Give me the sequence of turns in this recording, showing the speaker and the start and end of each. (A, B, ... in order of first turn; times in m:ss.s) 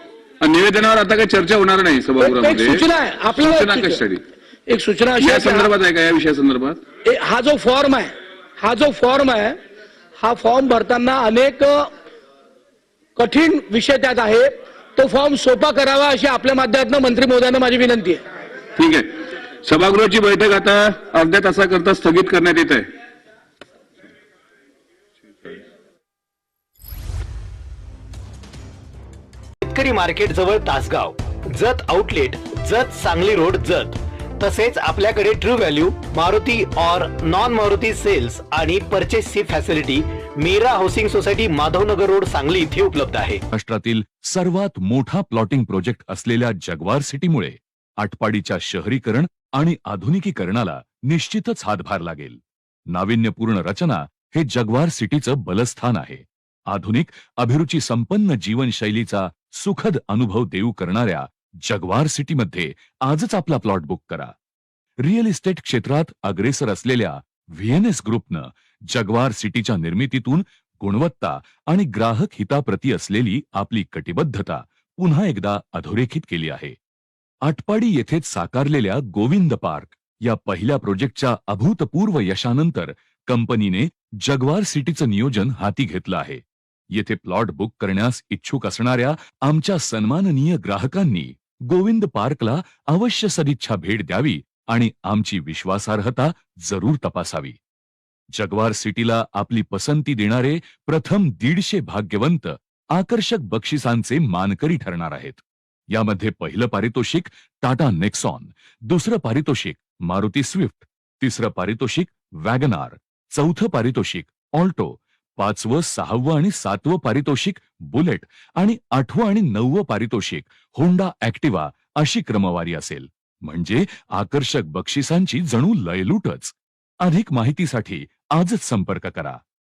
0:00.4-0:04.2 A
0:02.2-0:04.0 B
0:04.7-0:05.8 B
0:05.2-0:06.9 A
0:07.0-0:09.6 B
0:10.2-0:11.9 B
0:13.2-0:18.2 B
0:18.8-0:19.1 A
0:19.6-0:22.9 A
0:29.6-0:43.4 C
0:43.5-1:04.3 D
1:05.0-1:16.8 D
1:17.4-1:37.6 D
1:38.4-1:45.4 D
1:45.9-2:09.4 D